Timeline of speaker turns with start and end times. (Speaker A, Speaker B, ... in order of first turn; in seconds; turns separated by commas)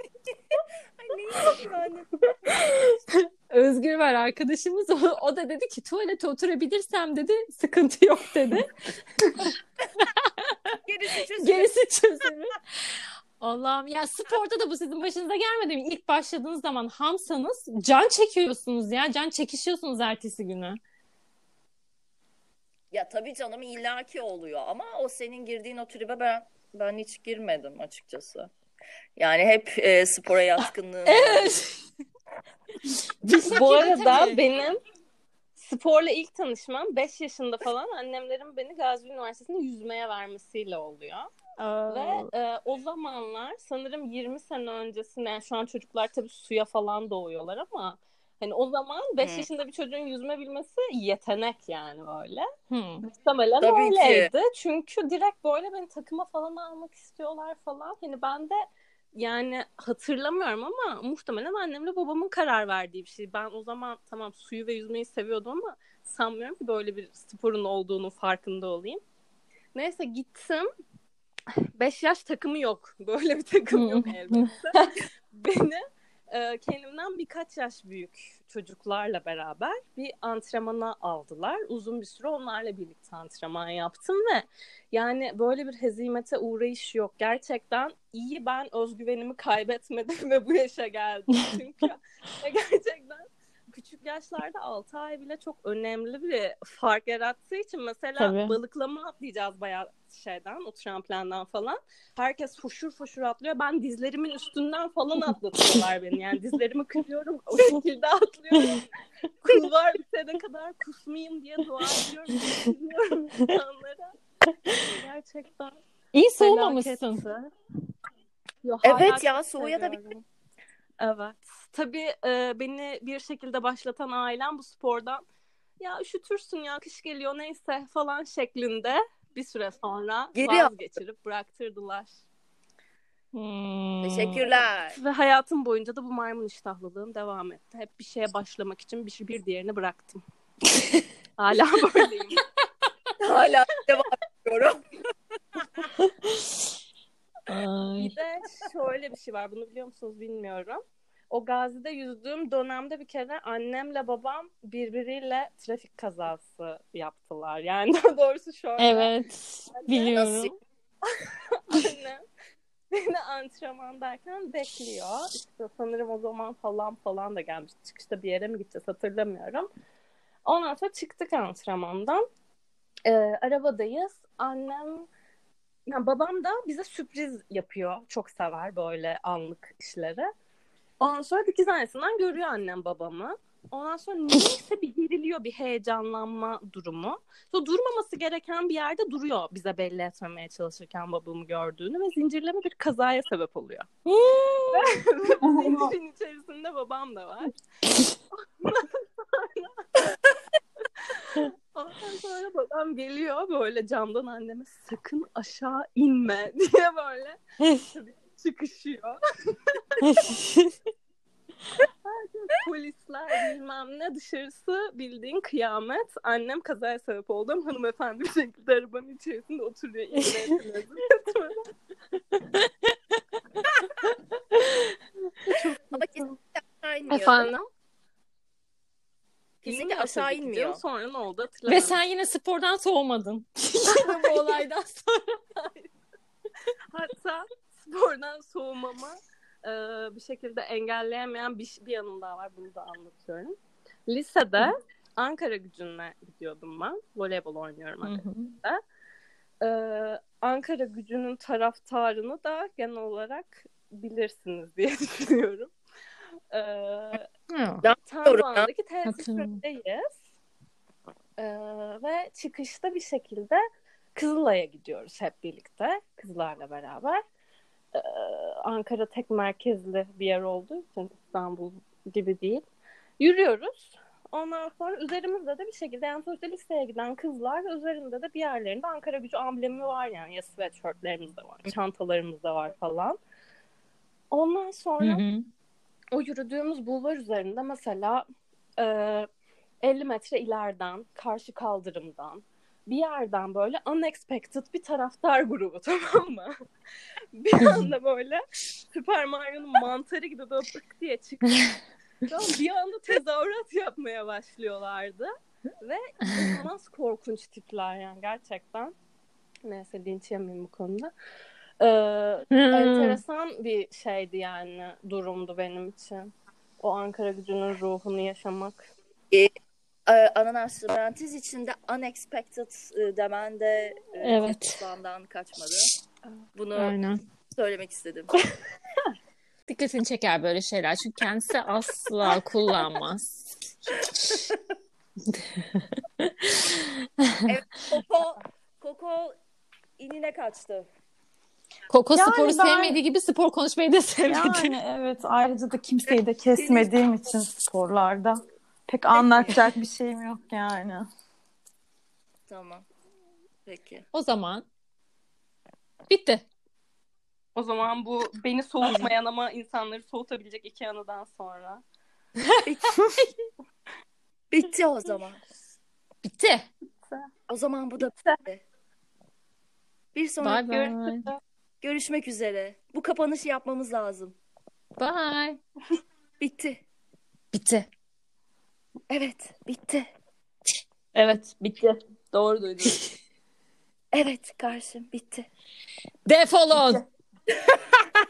Speaker A: 0.3-2.7, Speaker B: 2.5-8.7, Speaker B: 9.2-10.5, Speaker A: 10.9-11.8, Speaker B: 11.4-20.8, Speaker A: 22.9-28.5, Speaker A: 29.2-31.6, Speaker B: 31.1-31.6, Speaker B: 33.2-34.4, Speaker C: 33.5-34.8, Speaker C: 35.6-41.3, Speaker B: 41.6-42.3, Speaker C: 41.9-52.5, Speaker A: 49.2-49.5, Speaker B: 52.7-53.0, Speaker C: 53.1-58.6, Speaker A: 53.6-54.3, Speaker C: 59.2-69.0, Speaker C: 69.8-70.7, Speaker C: 71.8-74.8, Speaker B: 73.7-74.5, Speaker C: 75.3-108.9, Speaker B: 98.2-98.6, Speaker C: 109.4-114.1, Speaker C: 114.7-115.8, Speaker B: 116.1-117.2, Speaker C: 116.4-117.5, Speaker C: 118.6-120.2, Speaker A: 118.8-120.0, Speaker C: 121.0-125.2, Speaker C: 125.8-132.2, Speaker A: 130.4-130.7, Speaker B: 133.3-134.4, Speaker A: 134.0-135.0, Speaker C: 134.9-140.2, Speaker C: 141.4-142.4, Speaker A: 143.2-144.8, Speaker B: 147.5-148.1, Speaker D: 147.5-148.1, Speaker C: 148.0-159.1, Speaker B: 158.8-160.5, Speaker C: 159.8-160.3, Speaker A: 160.2-160.4, Speaker C: 161.1-162.2, Speaker C: 162.9-169.7, Speaker C: 170.4-172.2, Speaker C: 173.1-175.1, Speaker C: 175.9-180.3, Speaker C: 181.0-193.9, Speaker B: 194.1-194.9, Speaker C: 194.7-197.5, Speaker C: 198.6-200.1, Speaker C: 201.1-210.3, Speaker B: 210.0-210.7, Speaker C: 212.1-221.6, Speaker C: 225.5-225.8, Speaker A: 225.9-227.5, Speaker C: 227.1-227.7, Speaker C: 229.6-232.0, Speaker A: 229.7-230.8, Speaker B: 231.7-234.9, Speaker C: 233.9-235.9, Speaker C: 236.9-243.6, Speaker C: 244.1-248.8, Speaker C: 249.6-255.7, Speaker C: 256.5-257.3, Speaker B: 257.5-257.9, Speaker A: 257.8-258.7, Speaker C: 258.0-260.2, Speaker B: 259.1-259.6, Speaker C: 261.4-263.6, Speaker C: 264.1-267.2, Speaker C: 267.9-272.6, Speaker C: 273.2-283.2, Speaker C: 284.3-285.2, Speaker B: 285.0-285.4, Speaker C: 286.1-288.2, Speaker C: 288.8-289.3, Speaker C: 289.8-296.6, Speaker C: 297.3-301.7, Speaker C: 302.2-308.9, Speaker C: 309.6-311.1, Speaker C: 311.8-318.9, Speaker B: 312.5-313.2, Speaker A: 320.1-325.9, Speaker B: 324.2-324.8, Speaker A: 326.6-326.9, Speaker B: 326.7-327.2, Speaker A: 327.5-328.4, Speaker B: 329.7-334.4, Speaker B: 335.3-337.4, Speaker A: 337.5-339.4, Speaker A: 340.0-340.9, Speaker B: 341.9-344.8, Speaker D: 342.1-343.0, Speaker D: 344.3-351.1, Speaker A: 346.6-346.9, Speaker A: 349.1-349.6, Speaker A: 352.5-352.9, Speaker A: 353.7-354.1, Speaker B: 354.1-354.7, Speaker B: 356.1-356.4, Speaker C: 357.6-361.8, Speaker A: 362.6-363.1, Speaker A: 364.5-365.4, Speaker B: 366.2-366.7, Speaker A: 367.5-368.6, Speaker A: 370.1-371.1, Speaker B: 370.4-371.3, Speaker A: 371.8-374.4, Speaker B: 375.0-375.6, Speaker A: 376.4-376.8, Speaker B: 377.5-377.9, Speaker A: 379.1-380.1, Speaker E: 381.1-383.1, Speaker A: 384.1-385.5, Speaker B: 386.3-387.0